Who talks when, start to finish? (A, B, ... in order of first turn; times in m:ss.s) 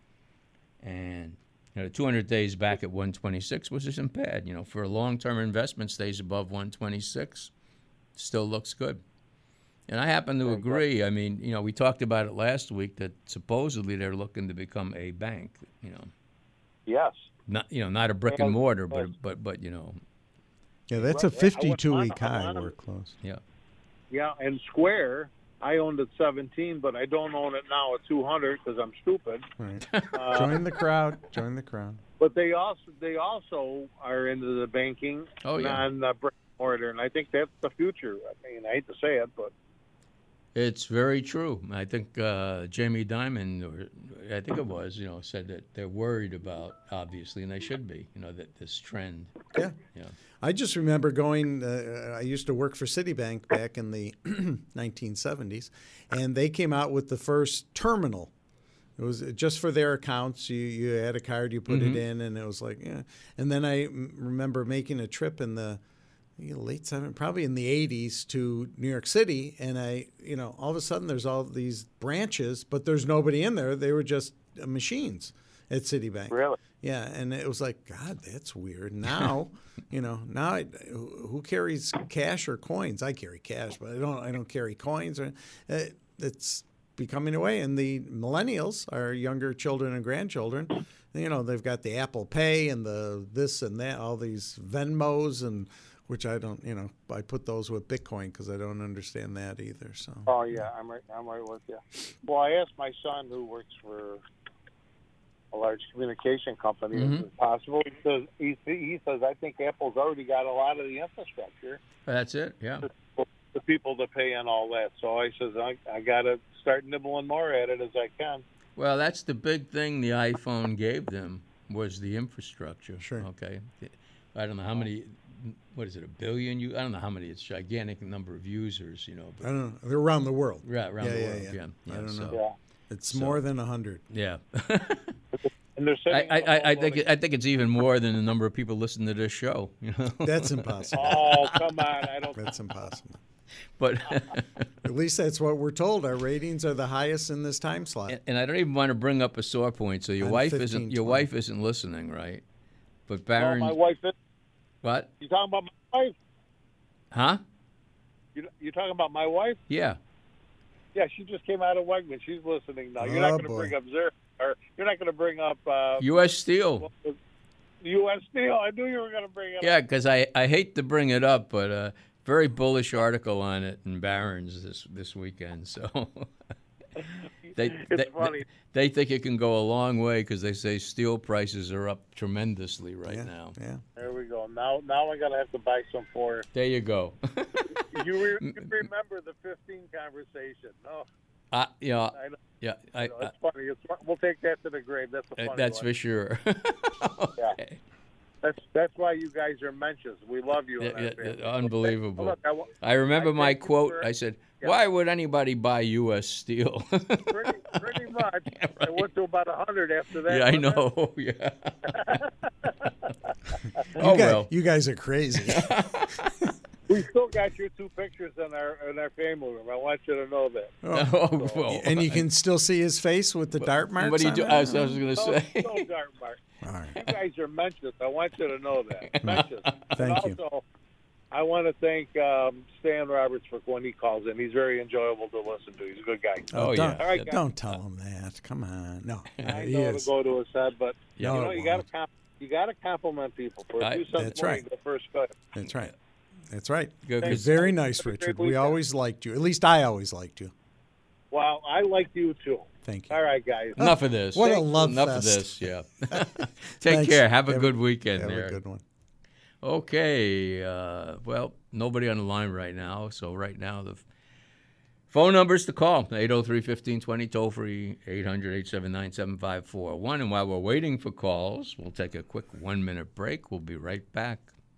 0:00.8-0:07.5 A
0:08.1-0:09.0 A
0:09.9-0:16.1 A
0:10.4-0:10.8 B
0:16.9-0:17.3 B
0:17.5-0:20.0 A
0:18.3-0:19.1 B
0:20.9-0:23.1 C
0:21.0-0:22.7 B
0:24.1-0:29.5 B
0:29.6-0:32.0 C
0:29.9-0:30.6 A
0:30.1-0:30.5 B
0:32.2-0:39.5 B
0:35.4-0:35.9 A
0:40.5-0:49.4 A
0:50.4-0:58.3 C
0:59.0-1:05.8 C
1:01.7-1:02.0 A
1:06.4-1:40.3 C
1:16.3-1:16.6 B
1:40.2-1:44.2 B
1:45.5-1:51.8 B
1:52.0-1:52.9 A
1:53.1-1:58.4 B
1:58.8-2:09.5 A
2:03.0-2:03.3 C
2:09.4-2:14.0 C
2:10.6-2:12.4 A
2:13.1-2:13.4 A
2:14.1-2:15.1 A
2:15.8-2:17.0 B
2:16.1-2:21.7 A
2:20.2-2:21.2 C
2:20.9-2:22.4 B
2:22.3-2:23.2 C
2:23.8-2:24.7 A
2:24.8-2:28.2 C
2:28.1-2:32.4 A
2:30.2-2:31.2 C
2:33.1-2:33.8 A
2:33.4-2:34.1 B
2:34.8-2:35.1 A
2:35.2-2:36.1 B
2:37.1-2:37.4 A
2:38.3-2:39.6 B
2:39.7-2:40.0 A
2:40.9-2:46.0 B
2:43.0-2:43.7 C
2:46.0-2:46.9 A
2:46.8-2:47.2 B
2:47.8-2:49.8 B
2:49.6-2:56.3 A
2:57.0-2:58.4 B
2:57.6-3:03.6 A
3:03.0-3:03.8 C
3:04.0-3:06.5 B
3:06.5-3:08.7 A
3:07.9-3:11.1 B
3:11.5-3:13.3 A
3:12.1-3:12.4 B
3:13.0-3:15.9 B
3:15.4-3:17.8 A
3:18.4-3:24.1 B
3:20.8-3:29.1 A
3:27.3-3:30.8 B
3:30.2-3:32.2 A
3:31.9-3:32.3 B
3:33.9-3:34.5 A
3:34.0-3:35.7 C
3:35.4-3:36.3 A
3:36.9-3:41.6 B
3:40.8-3:41.1 C
3:40.9-3:42.2 A
3:41.6-3:45.0 C
3:43.6-3:45.9 A
3:45.0-3:46.4 B
3:46.6-3:47.0 C
3:46.9-3:50.6 B
3:49.0-3:49.9 A
3:49.9-3:50.4 C
3:51.3-3:57.4 B
3:56.5-4:00.1 C
3:56.5-3:57.3 A
3:59.4-4:05.5 B
4:01.2-4:01.5 A
4:01.2-4:01.8 C
4:03.8-4:04.1 A
4:04.1-4:04.6 C
4:05.5-4:05.9 C
4:05.6-4:05.9 A
4:06.5-4:10.5 C
4:07.0-4:07.6 A
4:07.2-4:08.8 B
4:11.3-4:13.8 B
4:12.8-4:13.2 C
4:13.8-4:18.8 C
4:13.8-4:18.6 A
4:19.6-4:24.0 A
4:25.1-4:34.5 A